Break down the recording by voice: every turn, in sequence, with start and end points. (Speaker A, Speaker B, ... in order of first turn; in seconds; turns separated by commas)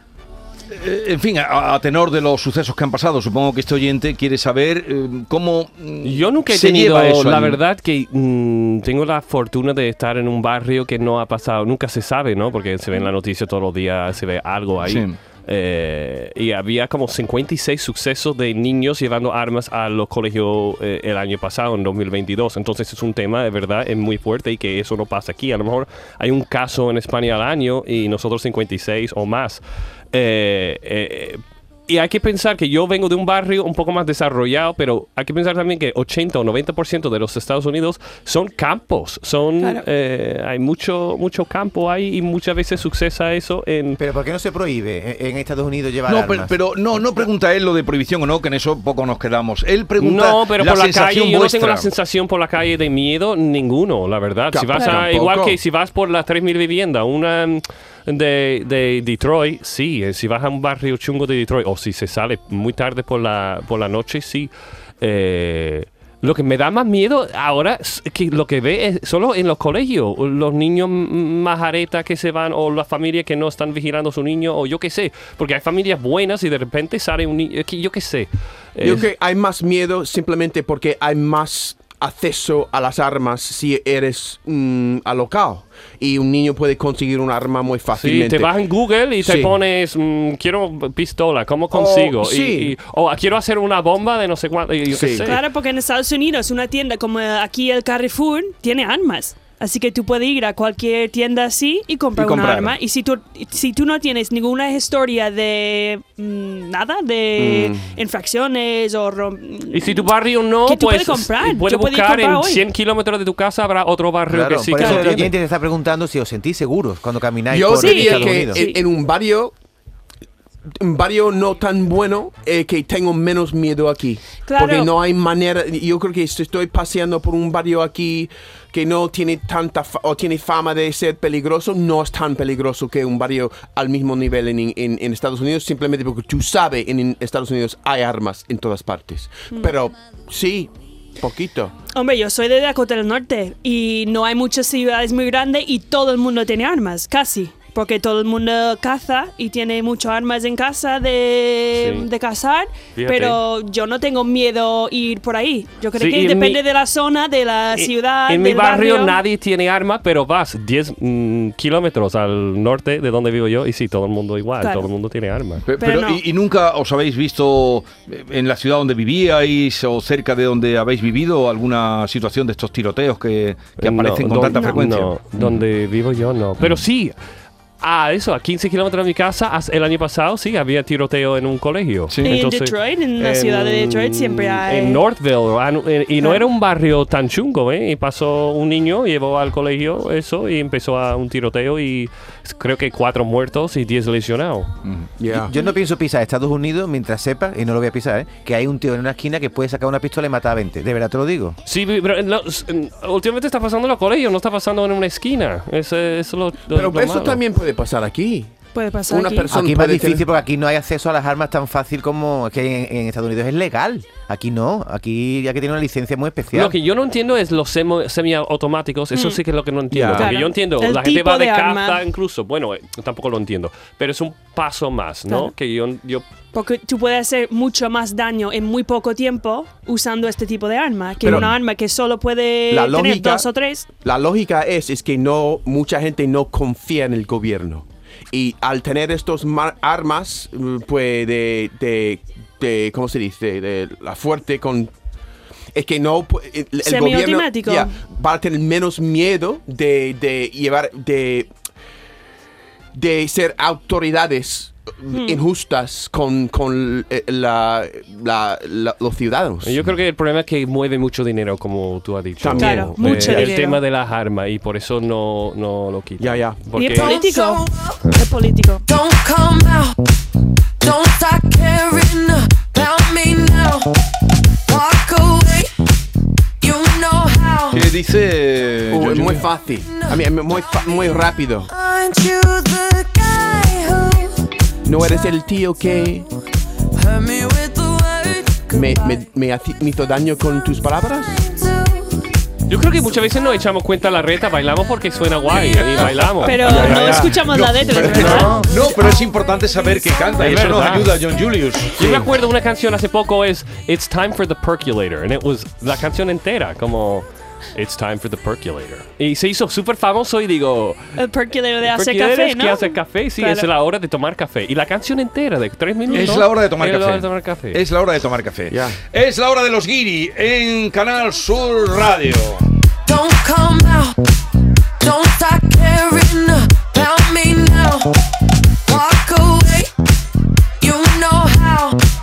Speaker A: 0.7-7.6, Speaker B: 6.0-29.6, Speaker A: 14.8-15.2, Speaker B: 30.1-44.0, Speaker C: 44.0-46.5, Speaker A: 46.0-51.9, Speaker B: 50.0-79.1, Speaker D: 54.5-55.6, Speaker D: 78.8-88.5, Speaker B: 87.9-95.4, Speaker D: 89.2-89.5, Speaker D: 91.7-92.7, Speaker D: 94.9-95.3, Speaker E: 95.2-112.7, Speaker A: 102.2-102.8, Speaker D: 107.4-107.9, Speaker B: 109.7-115.3, Speaker C: 114.3-118.7, Speaker E: 114.8-115.1, Speaker D: 117.5-119.5, Speaker E: 117.8-118.8, Speaker D: 120.8-141.8, Speaker E: 124.4-124.9, Speaker E: 141.9-159.2, Speaker B: 151.7-152.1, Speaker B: 152.9-153.4, Speaker B: 156.0-156.6, Speaker B: 157.7-165.6, Speaker E: 164.6-164.9, Speaker A: 165.7-175.6, Speaker E: 165.8-166.2, Speaker B: 173.8-177.2, Speaker E: 174.4-174.8, Speaker B: 177.8-194.7, Speaker A: 182.1-182.3, Speaker E: 182.2-185.0, Speaker A: 194.8-195.1, Speaker D: 195.2-195.5, Speaker C: 195.3-201.6, Speaker B: 201.6-207.4, Speaker D: 206.7-208.6, Speaker E: 208.7-209.5, Speaker D: 209.1-210.3, Speaker C: 209.5-216.8, Speaker B: 216.5-226.3, Speaker E: 219.1-219.4, Speaker D: 219.9-220.3, Speaker E: 220.1-222.0, Speaker E: 226.5-233.9, Speaker D: 231.2-231.5, Speaker A: 231.2-231.5, Speaker D: 232.7-233.5, Speaker D: 234.0-244.9, Speaker D: 245.7-251.5, Speaker E: 246.8-248.0, Speaker D: 252.9-259.8, Speaker E: 255.1-255.4, Speaker B: 259.6-267.1, Speaker D: 262.4-263.5, Speaker E: 262.5-263.8, Speaker D: 266.2-267.1, Speaker E: 266.8-268.8, Speaker F: 266.9-268.2, Speaker F: 268.9-270.0, Speaker F: 270.8-273.9, Speaker F: 274.6-275.7, Speaker F: 276.6-277.9, Speaker A: 277.7-279.5, Speaker D: 278.9-281.7, Speaker F: 279.8-284.5, Speaker D: 284.8-286.2, Speaker F: 286.9-289.2, Speaker D: 288.7-291.4, Speaker F: 291.2-292.2, Speaker B: 292.7-298.7, Speaker E: 296.4-298.7, Speaker A: 296.5-302.0, Speaker D: 296.6-298.5, Speaker F: 298.6-299.2, Speaker F: 299.9-300.3, Speaker B: 300.4-301.1, Speaker D: 300.6-301.0, Speaker B: 301.9-311.2, Speaker D: 302.0-302.2, Speaker E: 311.1-313.7, Speaker B: 311.8-317.8, Speaker A: 316.1-322.6, Speaker D: 318.7-319.0, Speaker F: 323.1-324.2, Speaker F: 325.0-328.1, Speaker F: 328.9-329.9, Speaker F: 330.8-332.0